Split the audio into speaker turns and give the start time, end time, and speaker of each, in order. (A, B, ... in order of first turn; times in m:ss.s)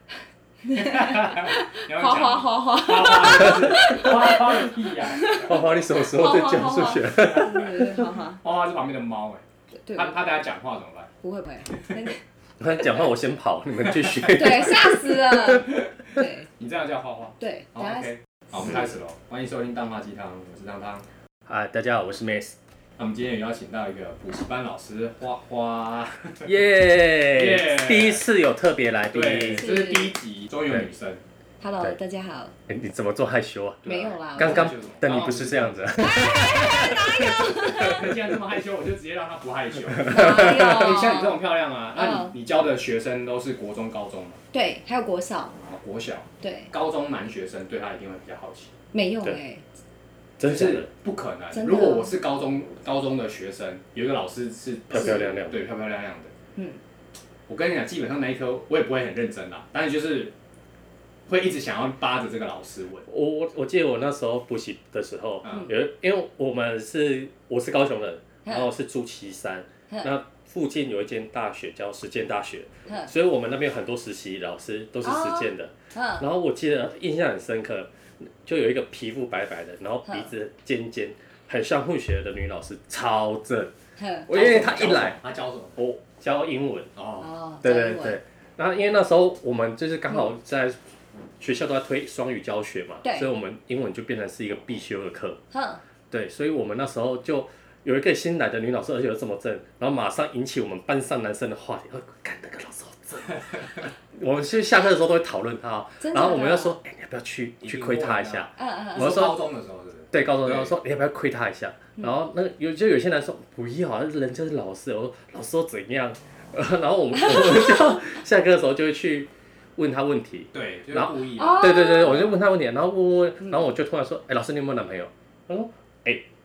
0:00.6-0:08.4 A
0:00.7-0:05.5 B
0:05.4-0:07.8 C
0:08.4-0:09.4 B
0:09.8-0:10.2 A
0:09.9-0:11.1 B
0:11.2-0:12.2 A
0:12.6-0:15.3 C
0:14.3-0:16.5 A
0:15.4-0:15.7 B
0:16.6-0:21.0 B
0:17.4-0:18.1 A
0:21.5-0:22.6 C
0:23.0-0:26.5 B
0:26.4-0:29.7 C
0:27.3-0:28.2 B
0:29.1-0:31.2 B
0:29.6-0:30.1 A
0:31.6-0:32.5 A
0:32.7-0:33.8 C
0:33.8-0:35.8 B
0:33.8-0:34.7 A
0:34.4-0:38.0 C
0:36.0-0:38.1 A
0:37.6-0:44.4 B
0:40.1-0:41.4 A
0:41.9-0:42.3 A
0:44.5-0:45.5 A
0:45.7-0:48.7 B
0:46.4-0:46.7 A
0:48.9-0:49.6 A
0:50.4-0:50.9 C
0:50.4-0:56.3 B
0:51.5-0:52.1 A
0:54.9-0:55.6 C
0:57.5-1:00.3 B
1:01.3-1:03.1 B
1:03.1-1:23.7 C
1:05.4-1:05.7 B
1:15.0-1:16.2 A
1:24.0-1:24.3 A
1:24.3-1:25.2 C
1:24.3-1:25.8 B
1:25.8-1:26.9 C
1:27.0-1:27.3 B
1:27.2-1:28.2 A
1:27.6-1:30.8 C
1:31.4-1:35.4 C
1:33.0-1:33.3 A
1:35.5-1:35.8 A
1:36.1-1:49.4 C
1:46.0-1:46.8 A
1:47.6-1:50.7 B
1:48.6-1:49.3 A
1:50.1-2:06.2 C
2:00.5-2:02.3 B
2:01.4-2:02.3 A